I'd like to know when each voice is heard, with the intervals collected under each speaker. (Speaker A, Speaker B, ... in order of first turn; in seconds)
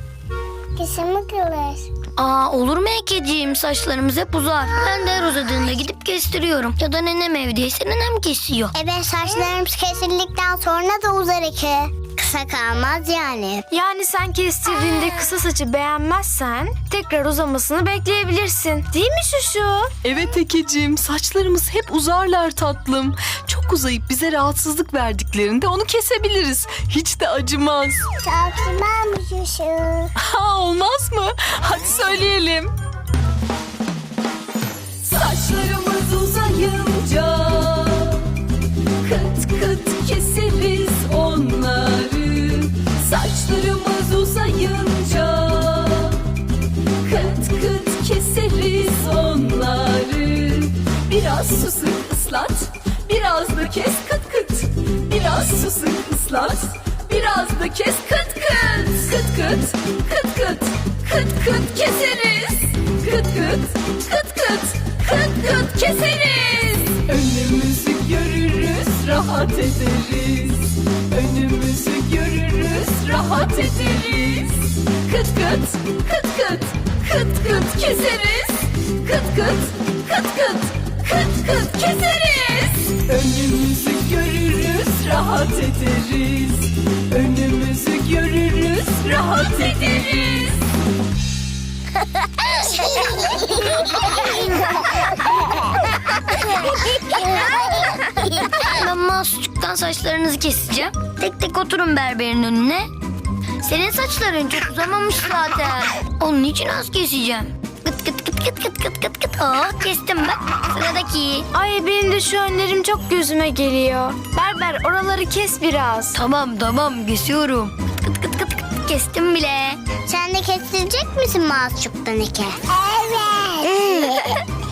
Speaker A: 0.8-1.9, 8.7-13.6, 28.2-30.1, 92.7-93.7, 97.1-97.8, 120.1-124.3
Speaker B: 2.2-8.7, 98.6-102.9, 103.6-111.5, 116.1-119.8
Speaker C: 13.7-19.9, 111.5-116.2
Speaker D: 20.0-28.0, 30.2-32.7, 35.0-38.3, 39.0-46.2, 47.0-90.6